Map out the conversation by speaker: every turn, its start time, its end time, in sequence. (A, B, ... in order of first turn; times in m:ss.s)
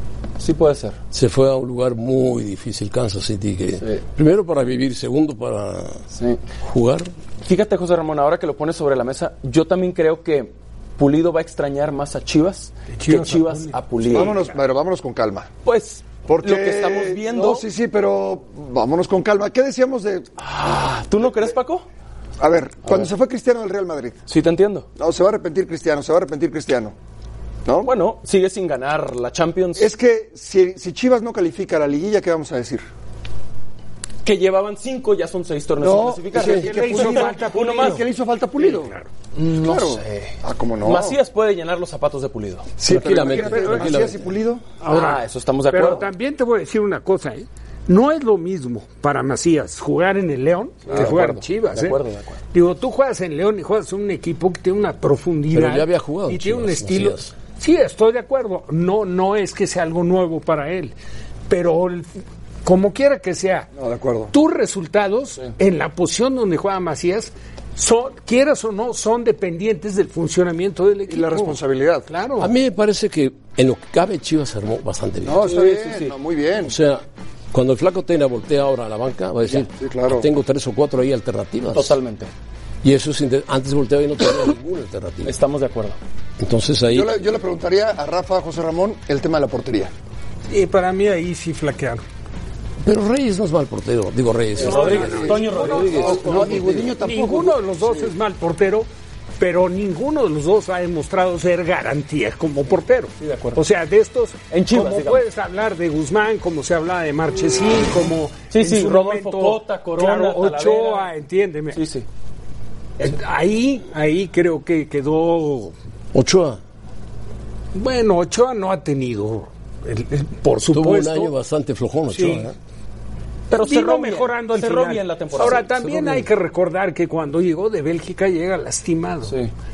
0:00.4-0:01.0 A
0:01.1-0:06.0 B
0:06.1-0:06.4 A
0:06.6-0:07.1 B
0:07.4-0:14.3 A
0:12.9-0:14.5 C
0:14.1-0:15.5 D
0:15.6-0:17.6 A
0:16.3-0:20.3 D
0:20.4-0:21.8 A
0:22.4-0:24.2 D
0:24.3-0:24.9 A
0:25.0-0:26.9 D
0:27.8-0:29.9 A
0:29.7-0:32.8 D
0:34.2-0:38.0 A
0:35.8-0:38.9 D
0:36.4-0:39.1 C
0:39.3-0:42.7 A
0:39.5-0:41.2 D
0:42.8-0:44.6 D
0:42.8-0:44.2 B
0:43.2-0:44.0 C
0:44.8-0:52.0 C
0:44.8-0:46.1 A
0:50.9-0:51.2 D
0:50.9-0:52.4 A
0:52.5-1:00.9 C
0:55.5-0:57.3 B
1:01.5-1:02.1 C
1:02.6-1:03.7 C
1:03.7-1:04.3 D
1:04.3-1:12.5 C
1:11.0-1:12.1 D
1:12.4-1:15.5 B
1:15.2-1:16.8 D
1:15.4-1:16.1 A
1:16.6-1:22.0 B
1:19.7-1:20.3 D
1:21.7-1:22.3 A
1:22.8-1:25.3 B
1:25.2-1:26.0 A
1:26.4-1:27.1 B
1:26.9-1:29.9 D
1:30.5-1:32.0 C
1:32.8-1:36.9 B
1:34.6-1:36.6 A
1:34.6-1:38.9 C
1:34.6-1:38.1 D
1:39.4-1:51.8 C
1:43.2-1:43.6 A
1:44.5-1:45.2 A
1:48.5-1:51.1 A
1:51.7-1:52.0 A
1:53.0-1:55.7 C
1:56.1-1:56.6 B
1:57.7-2:01.3 C
2:00.7-2:02.5 B
2:02.1-2:02.5 C
2:03.5-2:05.7 A
2:03.5-2:09.4 C
2:05.8-2:06.3 B